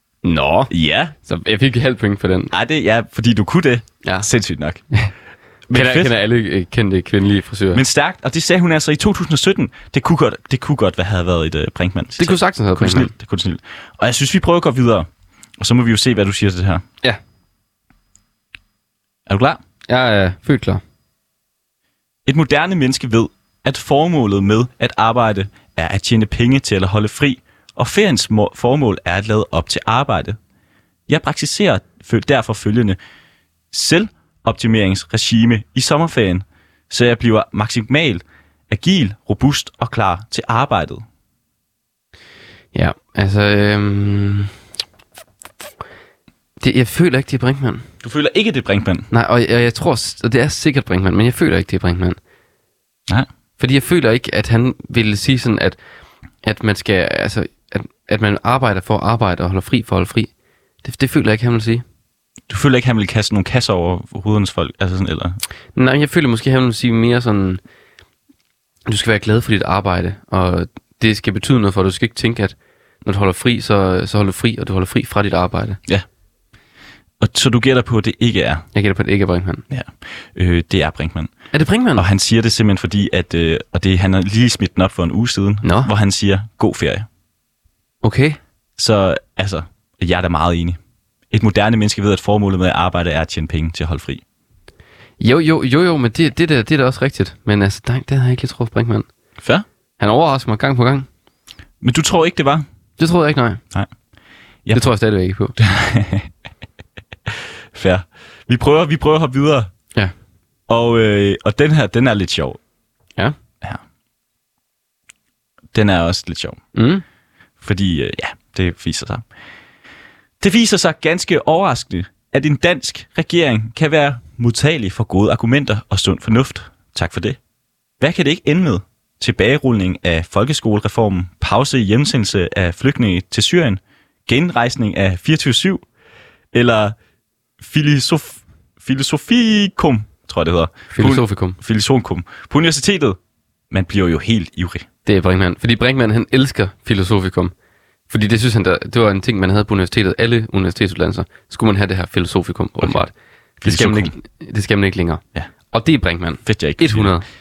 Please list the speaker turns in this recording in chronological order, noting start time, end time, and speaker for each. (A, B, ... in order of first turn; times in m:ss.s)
0:00.2-0:00.7 A
0:00.7-0:01.1 B
0:01.2-0:02.5 A
0:02.5-0:04.8 B
0:05.7-0:06.1 B
0:05.7-0:07.8 A
0:07.7-0:16.8 B
0:12.2-0:13.1 A
0:19.3-0:19.6 B
0:19.9-0:20.8 A
0:22.2-0:30.4 B
0:31.1-0:33.0 B
0:33.7-0:41.0 B
0:42.7-0:44.5 A
0:46.6-0:47.8 A
0:48.0-0:49.1 B
0:49.1-0:52.2 A
0:53.6-0:55.8 A
0:56.4-1:00.3 A
1:00.8-1:01.8 A
1:02.5-1:05.4 B
1:05.7-1:07.6 A
1:08.9-1:15.8 A
1:17.2-1:18.7 B
1:18.7-1:19.6 A
1:19.7-1:21.3 B
1:21.5-1:22.0 A
1:21.9-1:27.1 B
1:25.6-1:25.9 A
1:28.0-1:28.4 A
1:28.8-1:30.8 B
1:31.3-1:34.2 B
1:35.2-1:39.1 A
1:39.4-1:39.6 B
1:40.0-1:41.0 A
1:41.8-1:42.6 B
1:43.0-1:43.6 A
1:44.7-1:45.5 A
1:45.6-1:46.3 B
1:47.7-1:49.7 B
1:50.7-1:52.6 B
1:55.7-1:56.6 B
1:56.7-1:57.0 A
1:57.6-1:59.2 B
2:00.4-2:07.4 B
2:08.0-2:15.8 B
2:16.5-2:17.0 B
2:17.6-2:23.2 B
2:20.9-2:21.6 A
2:23.7-2:24.9 B
2:25.0-2:27.5 A
2:28.1-2:37.2 A
2:33.6-2:34.1 B
2:36.4-2:37.2 B